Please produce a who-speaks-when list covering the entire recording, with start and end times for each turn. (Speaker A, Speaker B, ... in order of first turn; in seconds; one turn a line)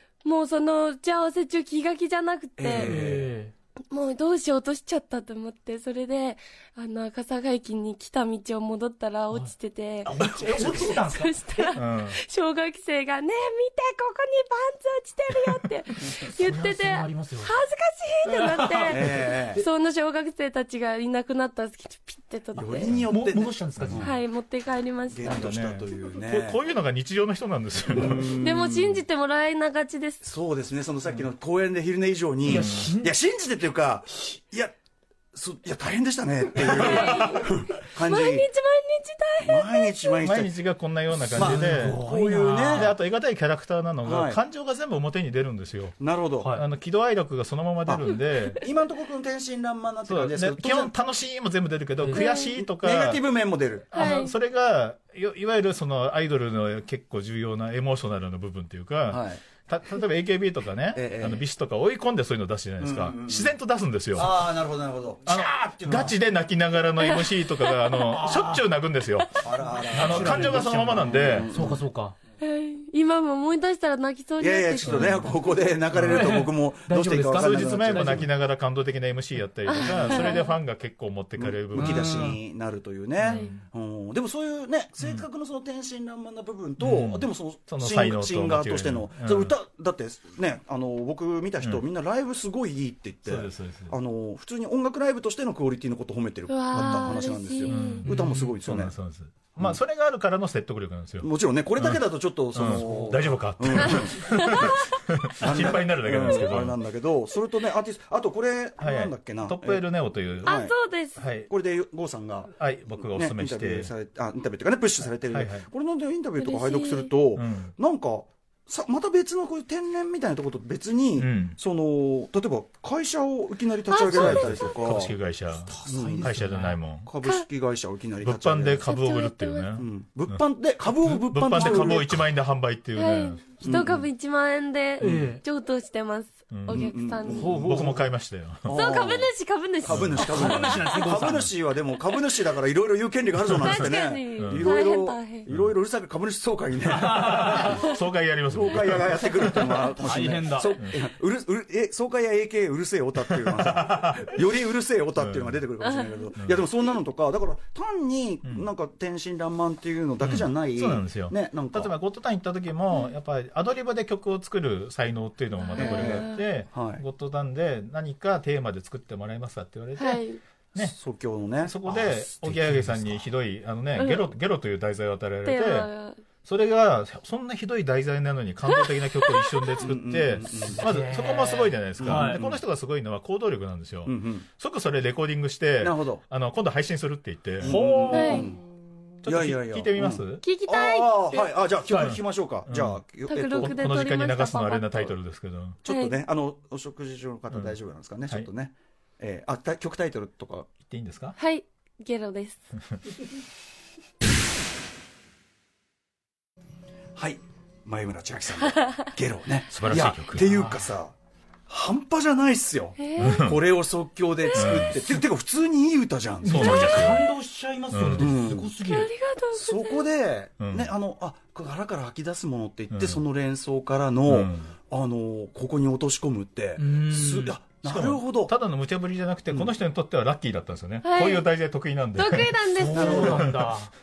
Speaker A: 0.2-3.0
Speaker B: 2.6-3.3
Speaker C: 2.8-3.5
Speaker A: 3.9-22.9
Speaker C: 10.1-11.3
Speaker D: 11.7-12.2
Speaker C: 16.2-17.5
Speaker C: 18.3-19.6
Speaker B: 18.9-19.6
Speaker B: 22.5-24.1
Speaker C: 23.1-24.0
Speaker D: 23.8-24.1
Speaker A: 24.0-25.5
Speaker B: 25.1-26.6
Speaker D: 25.3-28.4
Speaker B: 27.9-28.9
Speaker A: 28.4-30.2
Speaker B: 30.2-34.7
Speaker C: 32.4-33.1
Speaker D: 32.5-32.9
Speaker B: 35.3-38.5
Speaker A: 36.6-40.2
Speaker D: 36.8-37.4
Speaker B: 39.4-40.6
Speaker D: 40.2-42.0
Speaker C: 41.3-42.9
Speaker B: 41.3-42.9
Speaker D: 42.6-46.0
Speaker B: 44.0-44.4
Speaker B: 46.0-46.5
Speaker C: 46.4-46.6
Speaker D: 46.5-48.6
Speaker A: 48.0-48.5
Speaker B: 48.6-51.0
Speaker D: 50.0-53.2
Speaker A: 52.1-52.5
Speaker B: 52.1-53.9
Speaker D: 53.9-64.4
Speaker A: 53.9-54.3
Speaker B: 59.1-59.4
Speaker B: 60.9-61.4
Speaker B: 62.8-63.5
Speaker B: 64.1-66.2
Speaker D: 65.3-71.5
Speaker A: 67.0-68.0
Speaker C: 68.1-68.6
Speaker B: 69.4-71.9
Speaker C: 69.6-72.2
Speaker A: 72.4-75.2
Speaker B: 74.4-78.3
Speaker D: 74.8-75.3
Speaker D: 75.9-76.3
Speaker C: 75.9-78.3
Speaker D: 77.3-82.4
Speaker A: 79.7-80.5
Speaker B: 79.8-80.5
Speaker B: 81.4-99.0
Speaker C: 81.7-82.4
Speaker D: 83.2-83.6
Speaker D: 86.8-89.6
Speaker D: 93.3-93.9
Speaker A: 96.5-98.1
Speaker D: 96.8-97.1
Speaker D: 97.7-106.8
Speaker C: 98.1-98.5
Speaker B: 99.6-99.8
Speaker B: 101.2-104.8
Speaker A: 104.3-105.0
Speaker B: 105.4-109.8
Speaker D: 108.8-110.6
Speaker B: 110.4-110.7
Speaker A: 110.4-111.2
Speaker D: 111.2-111.5
Speaker B: 111.5-125.2
Speaker D: 112.5-113.9
Speaker D: 115.3-115.7
Speaker A: 116.4-117.1
Speaker D: 117.3-117.7
Speaker D: 121.2-121.6
Speaker A: 123.9-124.1
Speaker D: 124.1-127.1
Speaker C: 124.1-124.6
Speaker C: 125.5-126.8
Speaker B: 125.8-126.4
Speaker B: 127.0-128.9
Speaker D: 128.2-133.5
Speaker A: 128.8-129.7
Speaker B: 129.8-132.3
Speaker A: 132.9-137.5
Speaker B: 133.6-134.0
Speaker C: 135.0-135.4
Speaker D: 135.0-135.3
Speaker D: 136.5-136.9
Speaker B: 136.7-137.8
Speaker C: 137.3-138.1
Speaker D: 137.5-138.8
Speaker B: 138.7-139.3
Speaker A: 138.7-141.0
Speaker B: 139.8-147.9
Speaker D: 139.8-140.4
Speaker C: 140.2-141.5
Speaker D: 143.4-144.8
Speaker A: 143.6-145.5
Speaker D: 145.5-145.8
Speaker C: 146.9-147.8
Speaker D: 146.9-150.0
Speaker B: 148.5-161.9
Speaker C: 150.0-150.7
Speaker D: 153.6-154.2
Speaker D: 155.2-155.7
Speaker A: 155.8-156.3
Speaker D: 160.2-170.9
Speaker A: 165.6-166.4
Speaker B: 165.8-167.0
Speaker A: 170.0-170.4
Speaker B: 170.8-171.8
Speaker D: 171.6-175.9
Speaker C: 171.9-173.2
Speaker A: 174.0-174.3
Speaker A: 175.4-176.2
Speaker D: 176.4-187.8
Speaker A: 178.7-179.8
Speaker B: 179.8-180.8
Speaker C: 180.7-182.4
Speaker B: 182.0-182.6
Speaker B: 184.1-184.5
Speaker B: 185.8-186.2
Speaker B: 187.6-188.6
Speaker C: 187.6-188.5
Speaker A: 188.1-188.5
Speaker D: 189.2-190.4
Speaker B: 189.2-193.8
Speaker A: 190.4-191.5
Speaker C: 191.9-192.2
Speaker D: 192.7-193.0
Speaker A: 193.3-195.2
Speaker D: 193.6-195.8
Speaker B: 195.8-200.7
Speaker A: 195.9-196.2
Speaker D: 197.5-198.5
Speaker D: 200.8-201.4
Speaker A: 201.4-202.6
Speaker B: 207.2-211.1
Speaker D: 209.7-210.5
Speaker C: 210.4-210.9
Speaker B: 211.7-217.2
Speaker A: 213.0-213.5
Speaker D: 213.2-213.7
Speaker A: 214.5-214.9
Speaker D: 214.5-215.0
Speaker C: 216.4-219.1
Speaker D: 216.4-217.3
Speaker D: 217.9-218.3
Speaker B: 218.2-218.7
Speaker A: 218.8-220.1
Speaker B: 219.5-228.5
Speaker D: 220.6-220.9
Speaker D: 222.9-223.2
Speaker D: 224.3-224.7
Speaker C: 226.8-227.6
Speaker D: 227.8-232.7
Speaker B: 229.5-229.8
Speaker A: 231.0-231.5
Speaker A: 232.1-233.4
Speaker C: 232.8-233.9
Speaker B: 232.9-233.4
Speaker D: 233.2-233.6